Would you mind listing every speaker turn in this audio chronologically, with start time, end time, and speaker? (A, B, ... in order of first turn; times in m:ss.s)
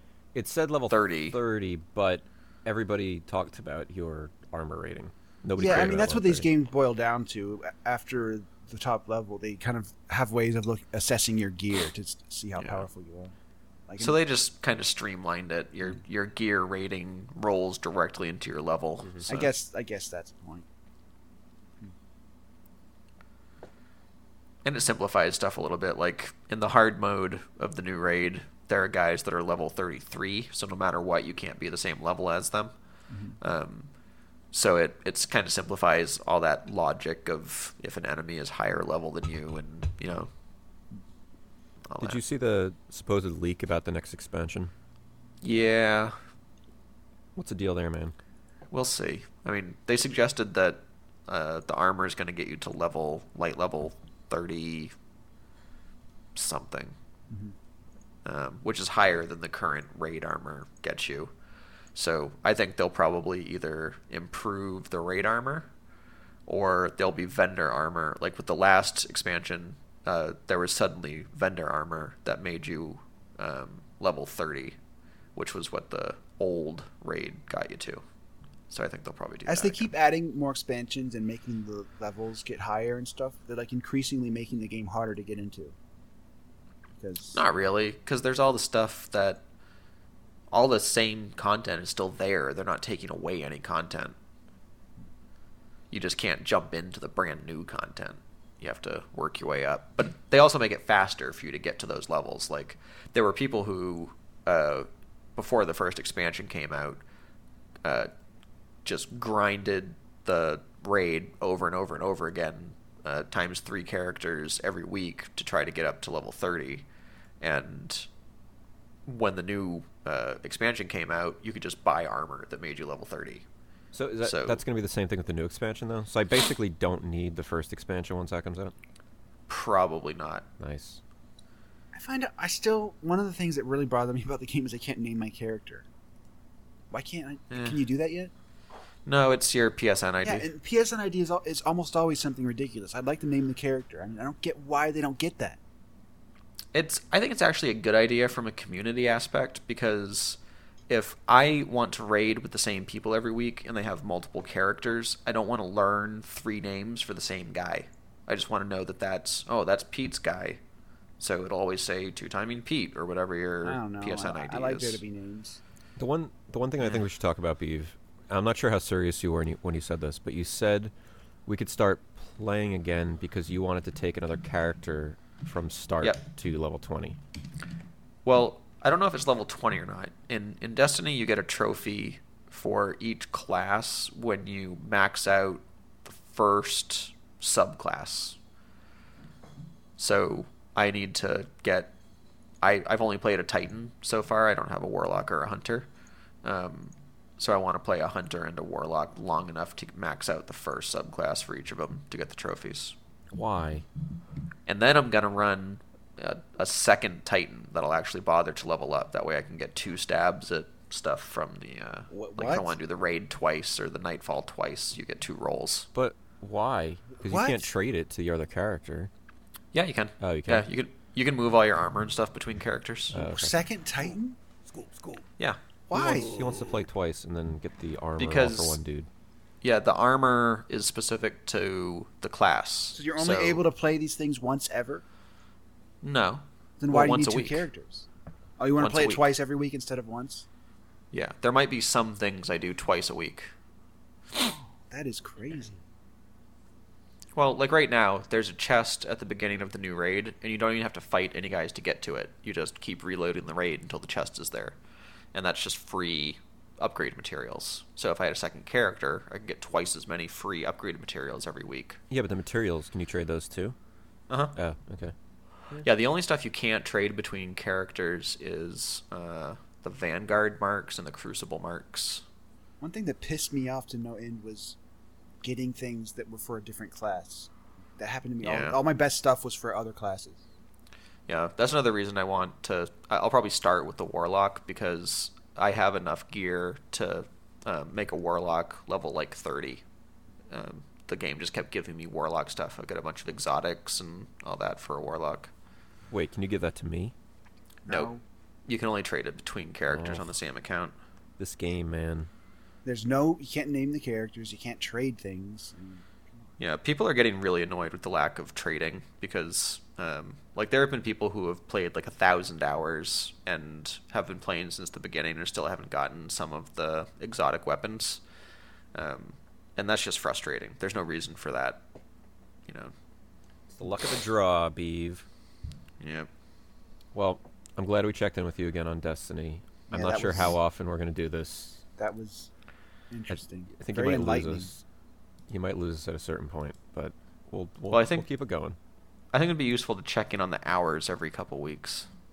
0:00.3-0:06.5 A
0:00.9-0:01.4 B
0:05.6-0:13.3 C
0:05.6-0:05.9 B
0:12.6-0:12.8 B
0:13.9-0:14.2 C
0:14.0-0:19.5 B
0:19.0-0:19.3 A
0:19.3-0:20.6 C
0:24.6-0:32.7 B
0:33.1-0:33.4 C
0:33.4-0:33.9 B
0:34.5-0:40.3 B
0:41.9-0:42.2 B
0:42.0-0:44.7 A
0:45.4-0:46.2 B
0:47.4-0:48.1 A
0:48.7-0:54.9 B
0:56.3-0:56.9 B
0:57.3-0:57.5 C
0:58.2-1:01.3 B
1:01.9-1:05.7 B
1:06.5-1:14.8 B
1:15.4-1:18.0 B
1:18.7-1:19.9 B
1:19.4-1:25.7 C
1:27.0-1:27.4 C
1:27.3-1:29.4 B
1:30.5-1:34.1 B
1:35.9-1:47.0 B
1:47.8-1:48.1 B
1:48.8-1:56.8 B
1:57.4-1:58.1 B
1:59.0-2:03.4 B
2:03.9-2:08.7 A
2:04.2-2:04.6 B
2:09.5-2:10.4 B
2:10.6-2:11.0 A
2:11.9-2:15.8 C
2:16.9-2:18.3 C
2:17.5-2:17.8 B
2:19.0-2:20.5 B
2:20.2-2:25.6 C
2:26.7-2:30.4 B
2:30.9-2:40.6 B
2:41.2-2:45.0 B
2:43.6-2:45.6 C
2:46.0-2:50.9 A
2:51.4-2:57.2 A
2:58.2-3:08.4 B
3:10.0-3:11.9 B
3:12.6-3:15.9 B
3:16.4-3:22.9 B
3:23.3-3:23.8 A
3:24.6-3:35.9 B
3:32.1-3:32.7 C
3:35.9-3:39.1 A
3:37.2-3:37.7 C
3:39.7-3:43.1 B
3:40.2-3:40.7 A
3:43.1-3:43.5 A
3:43.1-3:44.4 C
3:45.9-3:46.3 C
3:45.9-3:49.1 A
3:48.2-3:48.8 B
3:49.6-3:53.6 B
3:52.9-3:55.0 C
3:56.0-3:57.6 B
3:56.8-3:58.1 C
3:58.6-4:00.4 C
3:58.8-3:59.2 B
4:01.1-4:03.5 B
4:04.4-4:05.8 C
4:07.3-4:14.8 B
4:15.3-4:22.0 B
4:22.1-4:23.8 A
4:24.3-4:24.5 B
4:24.5-4:25.1 A
4:25.8-4:32.2 B
4:32.8-4:34.8 C
4:35.4-4:40.4 C
4:38.4-4:38.8 B
4:41.3-4:49.8 B
4:50.5-4:55.5 B
4:56.1-4:57.1 A
4:57.8-4:58.2 C
4:58.7-5:00.9 B
4:59.9-5:00.3 A
5:01.4-5:02.3 A
5:02.8-5:06.5 C
5:06.6-5:18.2 B
5:18.9-5:21.8 B
5:22.7-5:22.9 B
5:23.7-5:25.2 A
5:26.0-5:26.3 B
5:27.1-5:31.8 A
5:29.9-5:30.5 C
5:32.0-5:32.5 C
5:33.1-5:34.7 C
5:33.3-5:34.8 A
5:35.5-5:38.8 A
5:37.9-5:38.2 B
5:39.3-5:42.1 B